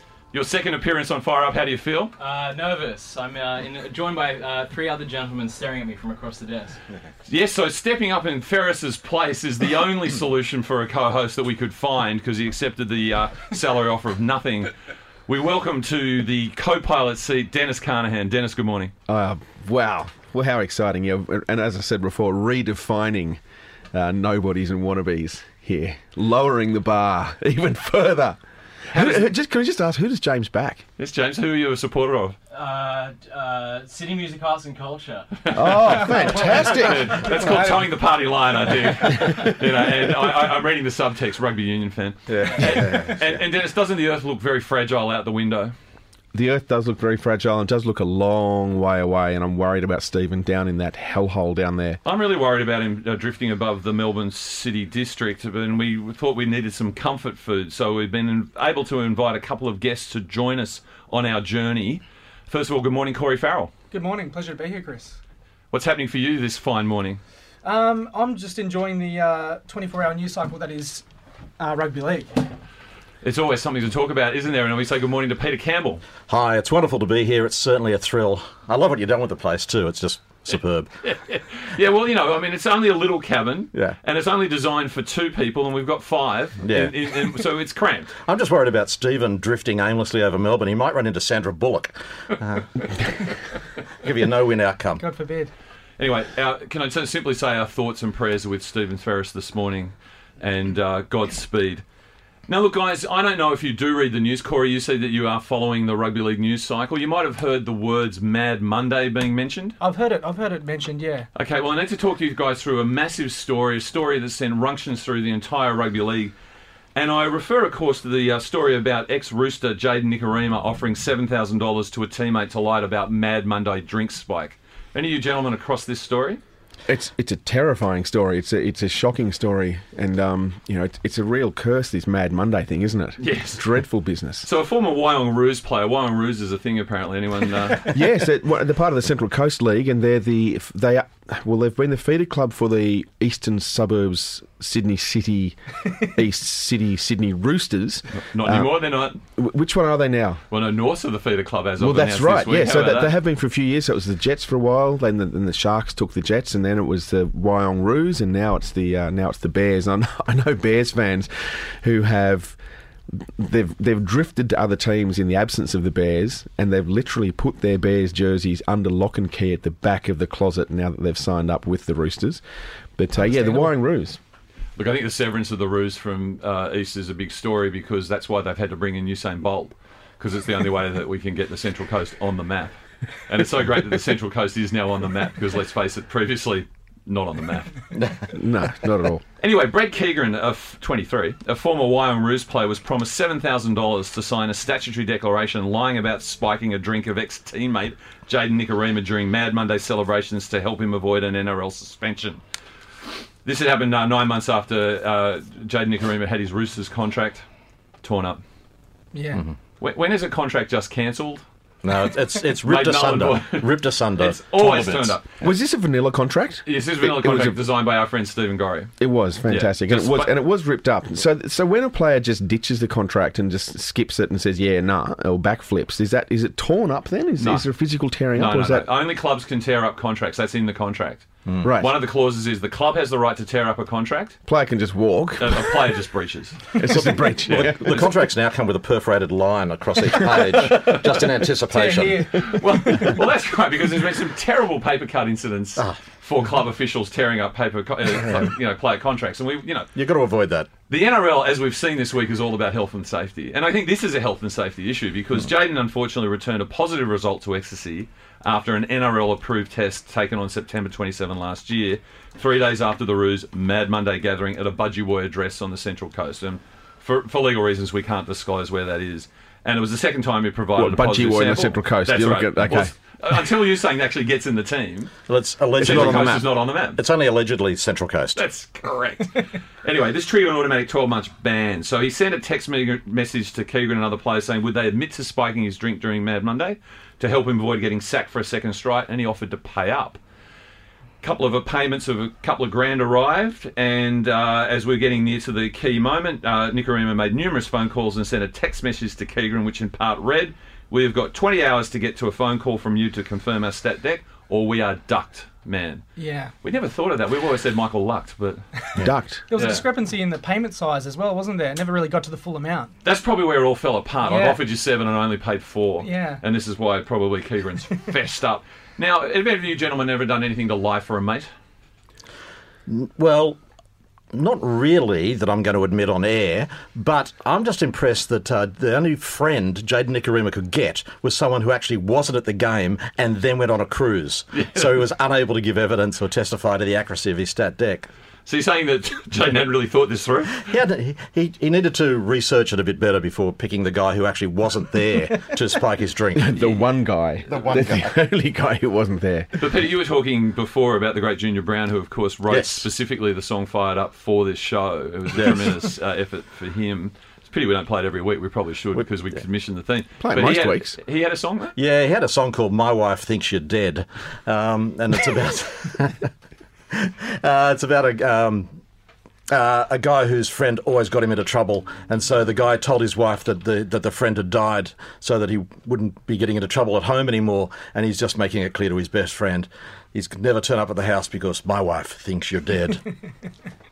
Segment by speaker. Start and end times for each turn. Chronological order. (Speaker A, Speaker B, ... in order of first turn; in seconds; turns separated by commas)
Speaker A: 0.3-2.1, Speaker B: 2.2-6.8, Speaker A: 7.3-14.7, Speaker A: 15.3-18.9, Speaker C: 19.1-23.4, Speaker C: 23.9-28.4, Speaker C: 28.9-30.9, Speaker A: 28.9-29.3, Speaker A: 31.0-32.4, Speaker B: 32.5-37.6, Speaker A: 35.5-45.8, Speaker C: 35.5-37.6, Speaker D: 42.3-43.4, Speaker C: 46.3-52.0, Speaker A: 52.0-63.7, Speaker E: 63.9-65.2, Speaker A: 65.7-67.2, Speaker E: 67.6-71.0, Speaker E: 71.6-72.3, Speaker A: 73.2-76.0, Speaker D: 76.3-80.9, Speaker A: 81.0-88.1, Speaker D: 86.6-87.2, Speaker D: 88.2-93.2, Speaker D: 94.0-95.0, Speaker E: 95.0-95.5, Speaker A: 96.0-101.8, Speaker A: 102.5-109.8, Speaker E: 109.8-111.3, Speaker A: 111.3-116.3, Speaker A: 117.0-126.4, Speaker C: 126.9-134.5, Speaker A: 133.2-133.7, Speaker A: 134.4-137.9, Speaker C: 137.9-150.4, Speaker A: 148.1-149.2, Speaker A: 150.5-153.2, Speaker C: 151.8-162.6, Speaker C: 163.1-172.4, Speaker C: 173.0-174.2, Speaker E: 173.2-173.7, Speaker A: 174.8-187.7, Speaker D: 187.9-188.3, Speaker C: 188.3-189.2, Speaker A: 189.4-202.4, Speaker A: 203.4-207.4, Speaker A: 208.0-208.4, Speaker E: 209.1-209.4, Speaker A: 209.8-211.4, Speaker D: 211.8-215.2, Speaker A: 212.6-215.3, Speaker C: 215.4-217.6, Speaker A: 216.7-218.9, Speaker C: 219.0-228.9, Speaker A: 219.5-220.3, Speaker A: 227.4-227.7, Speaker A: 228.3-234.4, Speaker C: 231.6-231.9, Speaker C: 234.5-235.8, Speaker A: 235.4-238.1, Speaker C: 236.8-238.0, Speaker D: 237.5-242.4, Speaker E: 240.3-241.0, Speaker E: 241.7-243.1, Speaker A: 242.4-249.9, Speaker D: 249.9-250.7, Speaker A: 250.9-275.1, Speaker C: 270.8-272.9, Speaker D: 275.3-278.4, Speaker C: 275.8-276.4, Speaker A: 275.8-277.0, Speaker A: 278.4-290.2, Speaker A: 291.2-306.1, Speaker E: 306.2-306.5, Speaker A: 306.6-308.6, Speaker C: 309.0-309.5, Speaker E: 309.5-312.9, Speaker A: 309.5-309.8, Speaker A: 313.0-321.5, Speaker E: 314.2-314.6, Speaker E: 316.0-316.4, Speaker D: 322.9-323.6, Speaker D: 324.3-338.1, Speaker A: 334.5-335.0, Speaker A: 338.5-340.7, Speaker D: 340.6-346.8, Speaker C: 346.4-349.5, Speaker D: 347.5-348.1, Speaker A: 349.6-361.7, Speaker D: 352.5-352.9, Speaker C: 360.2-361.0, Speaker D: 361.8-366.3, Speaker D: 366.9-368.8, Speaker D: 369.5-383.1